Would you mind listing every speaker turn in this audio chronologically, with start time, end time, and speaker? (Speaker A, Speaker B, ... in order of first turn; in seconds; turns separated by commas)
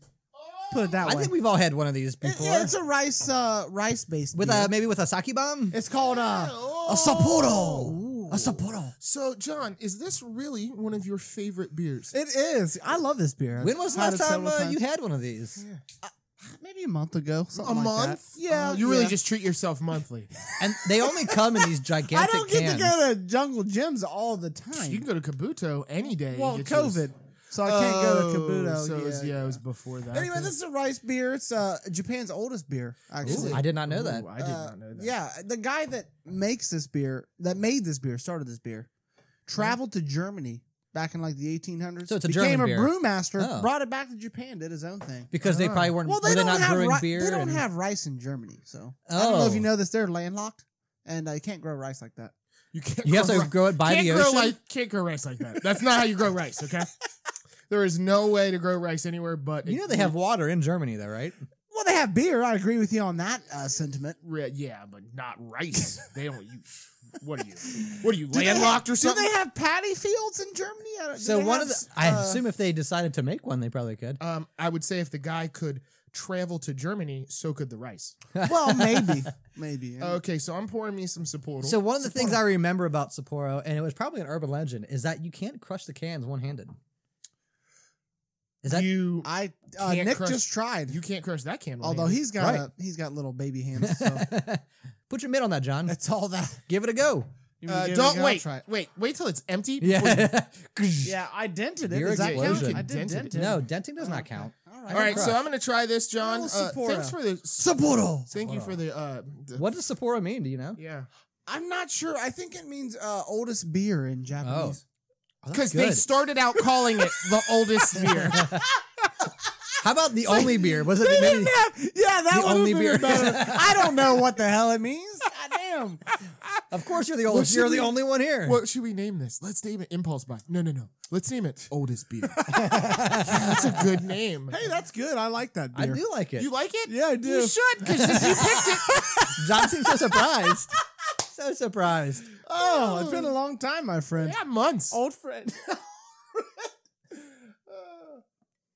Speaker A: 0.3-1.0, Speaker B: 0.7-1.4, Speaker C: 1.0-2.7, Speaker B: 2.2-4.7, Speaker C: 4.3-5.8, Speaker B: 5.7-8.9, Speaker A: 5.9-12.1, Speaker B: 12.1-14.8, Speaker C: 13.6-15.6, Speaker A: 15.6-15.8, Speaker B: 16.0-19.2, Speaker A: 17.6-20.3, Speaker C: 20.6-23.0, Speaker B: 21.0-25.1, Speaker A: 24.8-27.1, Speaker B: 26.3-29.6, Speaker A: 27.6-30.5, Speaker B: 30.1-33.7, Speaker C: 33.2-34.3, Speaker A: 33.2-35.1, Speaker B: 34.3-38.9, Speaker B: 39.5-45.3, Speaker C: 42.1-43.7, Speaker C: 45.3-47.6, Speaker A: 45.4-46.0, Speaker B: 46.0-52.3, Speaker C: 49.1-49.7, Speaker A: 52.7-56.9, Speaker C: 53.0-54.6, Speaker A: 57.7-60.1, Speaker C: 59.7-61.4, Speaker B: 61.7-64.2, Speaker A: 64.2-69.3, Speaker B: 67.8-72.4, Speaker C: 71.2-74.2, Speaker A: 74.2-78.2, Speaker C: 78.3-79.3, Speaker B: 78.4-80.2, Speaker A: 80.0-82.4, Speaker C: 81.6-86.7, Speaker C: 88.6-88.9, Speaker A: 88.7-92.3, Speaker B: 89.2-91.0, Speaker B: 91.8-94.3, Speaker C: 92.4-92.7, Speaker C: 93.8-96.0, Speaker B: 95.9-96.6, Speaker C: 96.7-97.3, Speaker B: 97.6-98.6, Speaker A: 97.7-100.3, Speaker C: 99.8-101.2, Speaker B: 101.0-105.4, Speaker C: 101.9-105.4, Speaker A: 102.1-103.5, Speaker A: 104.9-109.7, Speaker B: 106.2-108.3, Speaker C: 108.4-108.8, Speaker C: 109.6-110.8, Speaker A: 110.8-111.1, Speaker B: 111.5-114.8, Speaker C: 114.4-114.8, Speaker C: 115.4-116.1, Speaker A: 115.5-118.5, Speaker B: 117.0-118.7, Speaker C: 118.4-118.7, Speaker C: 119.8-121.6, Speaker B: 120.3-126.1, Speaker C: 122.3-124.2, Speaker C: 126.7-128.6, Speaker A: 127.2-132.4, Speaker B: 132.4-133.2, Speaker C: 132.5-133.7, Speaker A: 133.2-134.6, Speaker B: 134.5-136.0, Speaker C: 135.7-136.5, Speaker A: 136.4-139.3, Speaker B: 136.9-140.6, Speaker C: 138.0-138.6, Speaker C: 139.3-140.7, Speaker C: 141.3-142.3, Speaker B: 142.4-144.4, Speaker A: 142.5-143.3, Speaker A: 144.2-145.0, Speaker B: 144.9-145.8, Speaker B: 147.7-148.1